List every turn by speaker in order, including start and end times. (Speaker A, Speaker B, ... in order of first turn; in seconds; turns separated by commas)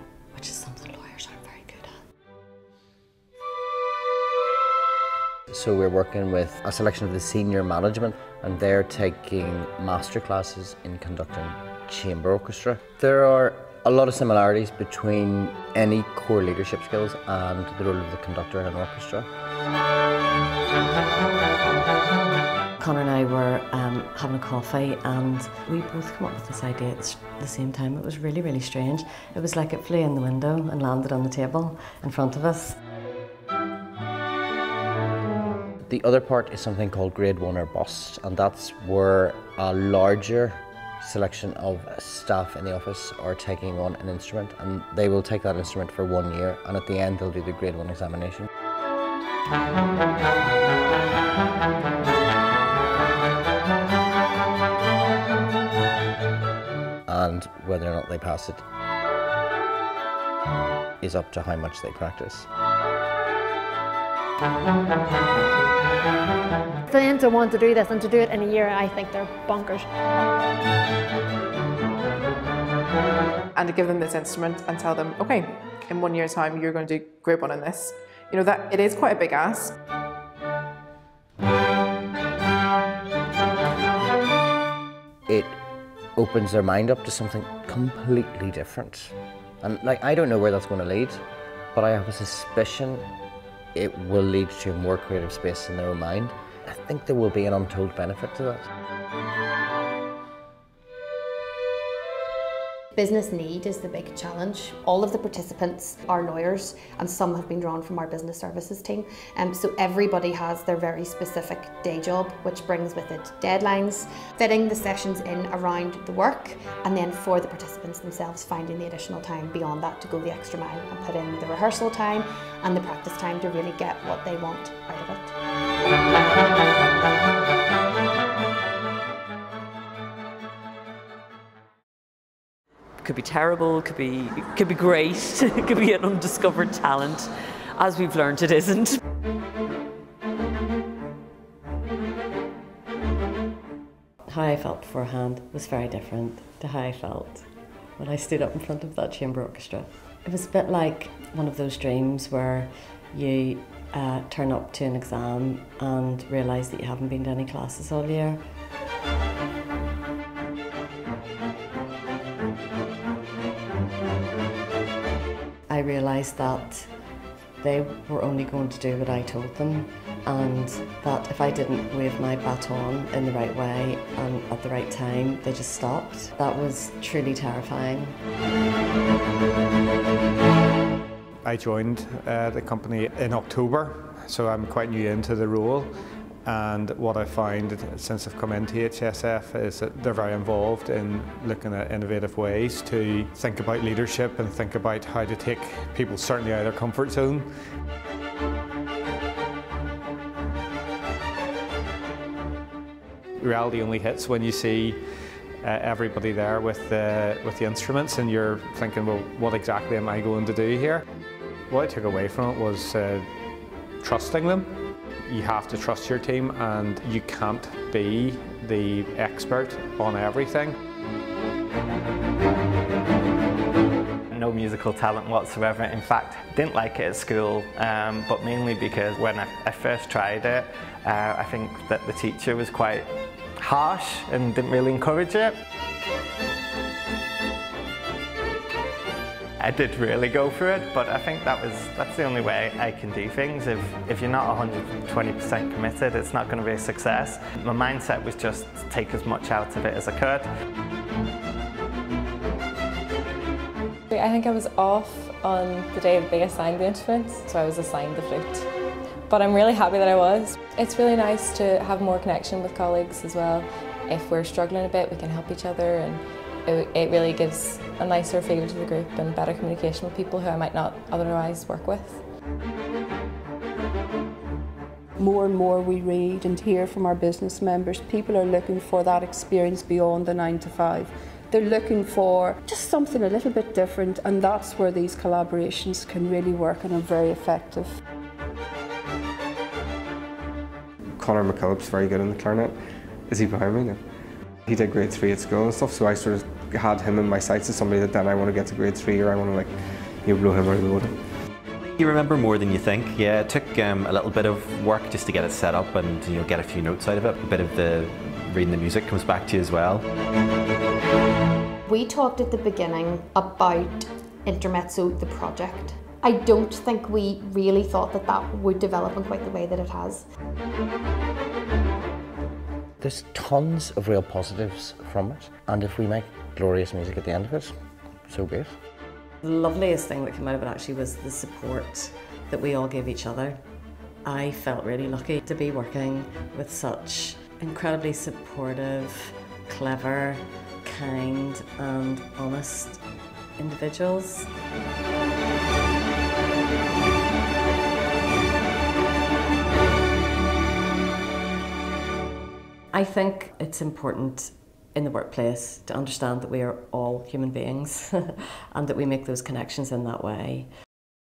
Speaker A: 0.3-1.9, Speaker B: 5.5-19.3, Speaker A: 22.8-32.8, Speaker B: 35.8-48.5, Speaker B: 57.1-58.6, Speaker B: 61.0-62.5, Speaker C: 66.9-69.8, Speaker D: 73.5-79.7, Speaker B: 85.3-85.6, Speaker B: 86.2-91.2, Speaker B: 91.7-93.1, Speaker B: 93.7-98.6, Speaker E: 102.9-125.3, Speaker F: 133.0-139.0, Speaker A: 144.3-147.4, Speaker A: 148.0-158.4, Speaker A: 165.7-166.9, Speaker A: 167.6-178.2, Speaker G: 181.4-185.9, Speaker G: 186.4-197.5, Speaker G: 203.4-205.0, Speaker G: 205.6-211.0, Speaker G: 211.7-213.3, Speaker G: 214.0-214.7, Speaker G: 215.2-220.7, Speaker H: 224.3-233.1, Speaker H: 233.6-235.6, Speaker H: 239.6-250.5, Speaker I: 254.1-258.7, Speaker I: 259.3-272.2, Speaker J: 275.2-288.0, Speaker K: 291.2-292.7, Speaker K: 293.3-294.0, Speaker K: 294.7-299.7, Speaker K: 300.2-301.1, Speaker L: 301.8-310.1, Speaker E: 311.9-320.2, Speaker B: 323.0-327.7, Speaker B: 328.3-328.7, Speaker A: 329.4-333.6, Speaker A: 334.2-343.0, Speaker A: 343.6-344.5, Speaker A: 352.9-360.7